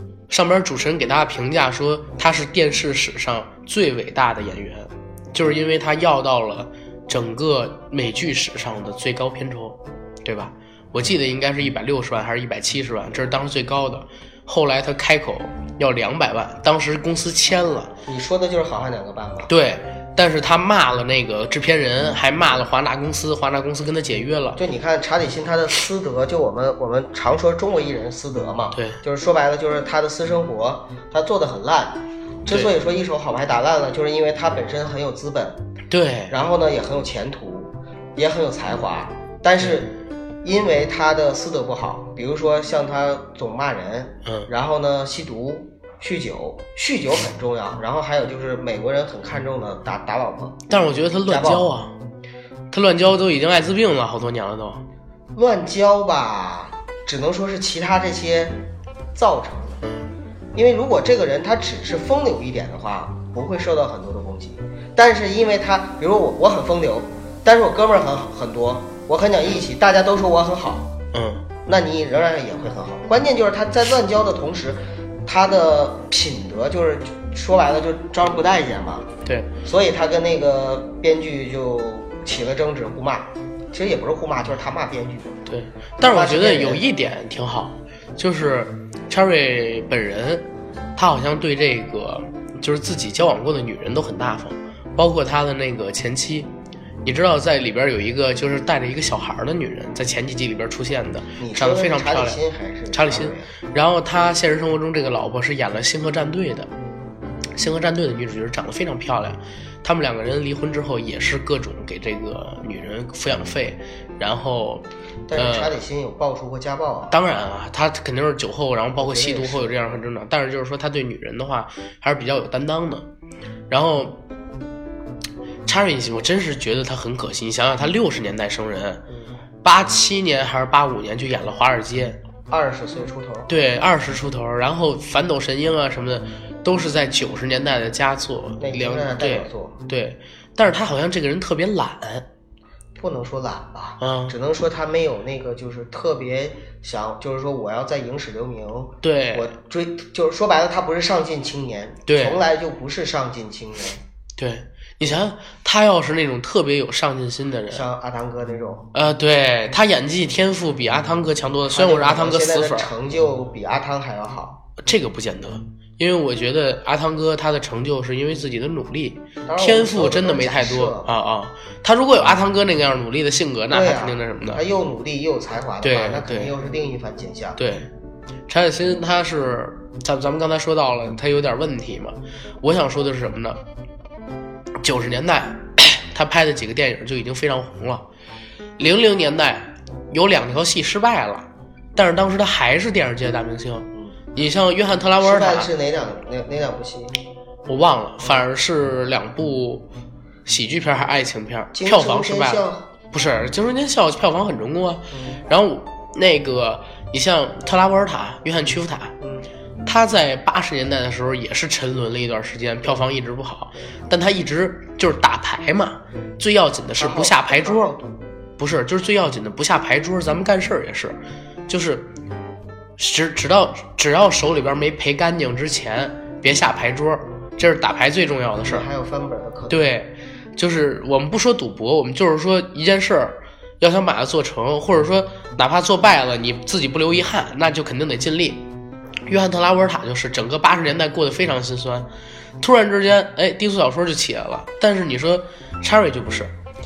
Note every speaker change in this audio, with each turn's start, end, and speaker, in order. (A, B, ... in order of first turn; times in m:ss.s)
0:00.3-0:17.9 A
0:18.1-0:19.5 B
0:19.5-0:24.6 A
0:24.6-0:35.6 B
0:28.7-0:29.0 A
0:35.9-0:36.4 A
0:36.3-0:39.9 B
0:40.4-0:50.6 B
0:50.7-0:51.9 A
0:51.3-0:51.7 B
0:52.7-0:54.8 A
0:55.3-0:58.6 B
0:59.2-0:59.8 B
1:00.5-1:10.9 B
1:11.1-1:11.4 A
1:11.6-1:19.1 B
1:19.2-1:19.5 A
1:19.6-1:25.4 B
1:25.5-1:30.4 A
1:26.0-1:26.8 B
1:31.0-1:36.5 A
1:37.0-1:42.4 A
1:41.4-1:43.5 B
1:42.9-1:46.7 A
1:47.6-1:55.7 A
1:55.3-1:57.2 B
1:57.1-2:03.1 A
1:59.0-2:00.0 B
2:03.7-2:04.2 A
2:05.7-2:09.0 A
2:09.6-2:12.2 A
2:12.5-2:13.5 B
2:13.5-2:22.2 A
2:18.6-2:19.8 B
2:23.0-2:34.0 B
2:24.0-2:24.4 A
2:29.0-2:29.5 A
2:32.1-2:32.4 A
2:34.4-2:37.9 A
2:37.7-2:38.9 B
2:38.9-2:42.9 A
2:41.7-2:44.6 B
2:44.8-2:54.6 A
2:49.5-2:51.1 B
2:53.7-2:57.6 B
2:55.8-2:56.5 A
2:57.6-2:57.9 A
2:58.5-3:03.6 A
3:04.8-3:08.0 A
3:08.8-3:15.7 A
3:15.2-3:17.2 B
3:17.7-3:19.9 A
3:20.5-3:29.1 A
3:21.7-3:22.9 B
3:25.1-3:25.4 B
3:29.2-3:29.5 B
3:29.8-3:37.9 A
3:37.0-3:38.2 B
3:38.6-3:42.1 A
3:43.0-3:48.9 A
3:48.6-3:49.8 B
3:49.7-3:58.6 A
3:59.3-4:02.1 A
4:02.6-4:06.5 A